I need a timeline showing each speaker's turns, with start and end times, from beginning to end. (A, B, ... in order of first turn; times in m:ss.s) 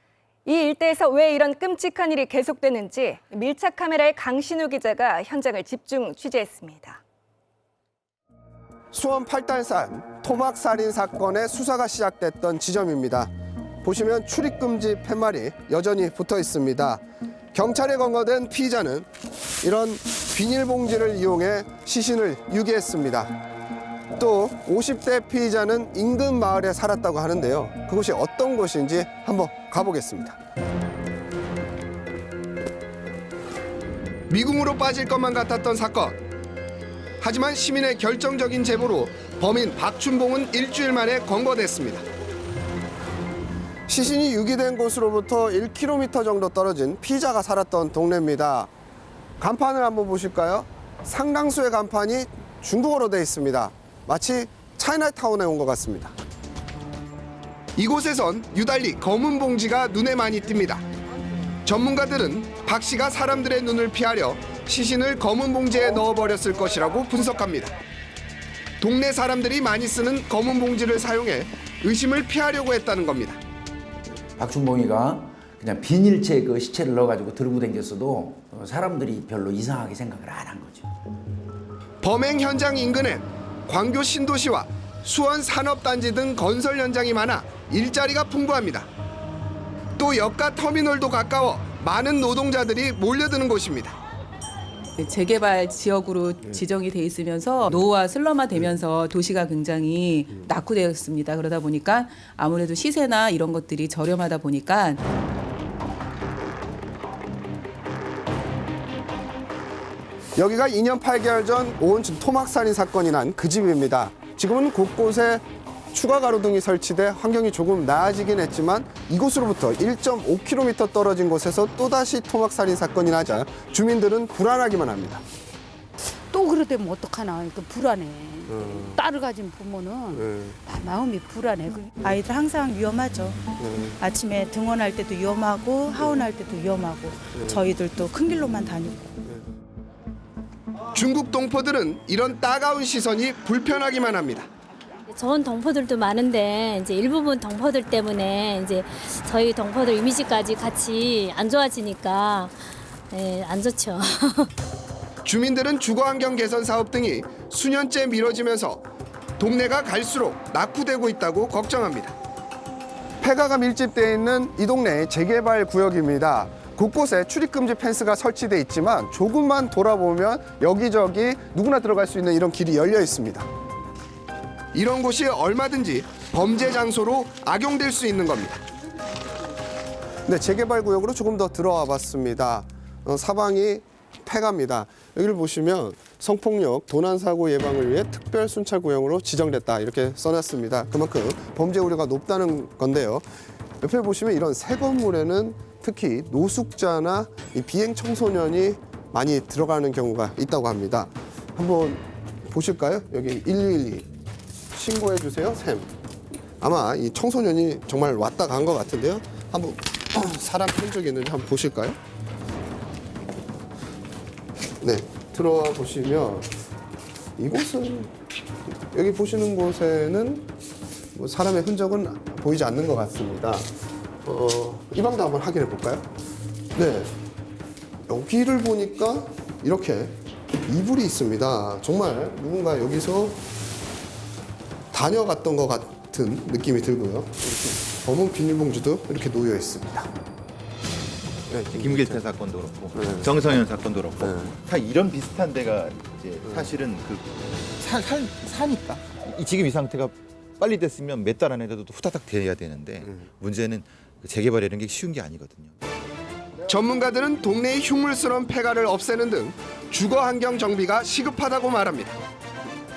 0:00.4-0:07.0 A
0:08.9-0:13.3 B
0:13.8-0:17.0 B
0:17.5-0:19.1 B
0:19.6-0:23.3 B
0:24.2-0:30.4 B
0:34.3-0:36.2 B
0:37.2-0:42.0 B
0:43.9-0:48.7 B
0:49.4-0:56.1 B
0:57.8-1:00.8 B
1:01.6-1:07.7 B
1:08.8-1:13.4 B
1:14.4-1:20.9 C
1:22.0-1:28.9 B
1:30.0-1:34.0 B
1:35.0-1:45.0 D
1:50.4-2:05.2 B
2:06.3-2:12.0 E
2:08.5-2:09.0 B
2:10.1-2:10.5 B
2:12.1-2:13.4 F
2:13.6-2:14.0 B
2:14.0-2:19.2 F
2:15.9-2:16.2 B
2:17.3-2:17.7 B
2:20.9-2:24.5 B
2:25.1-2:32.5 G
2:33.1-2:34.4 G
2:35.2-2:38.8 B
2:39.4-2:42.1 B
2:43.2-2:53.5 B
2:54.7-2:58.6 B
3:00.2-3:13.2 B
3:13.8-3:24.1 B
3:24.7-3:25.9 B
3:26.6-3:32.0 B
3:34.8-3:36.5 B
3:37.4-3:38.1 B
3:38.9-3:40.5 B
3:41.1-3:43.7 B
3:44.2-3:46.0 B
3:46.7-3:47.1 B
3:48.1-3:50.1 B
3:50.7-3:53.4 B
3:54.9-4:00.1 B
4:01.5-4:02.2 B
4:01.7-4:15.7 H
4:03.0-4:03.3 B
4:04.2-4:04.5 B
4:16.7-4:22.1 B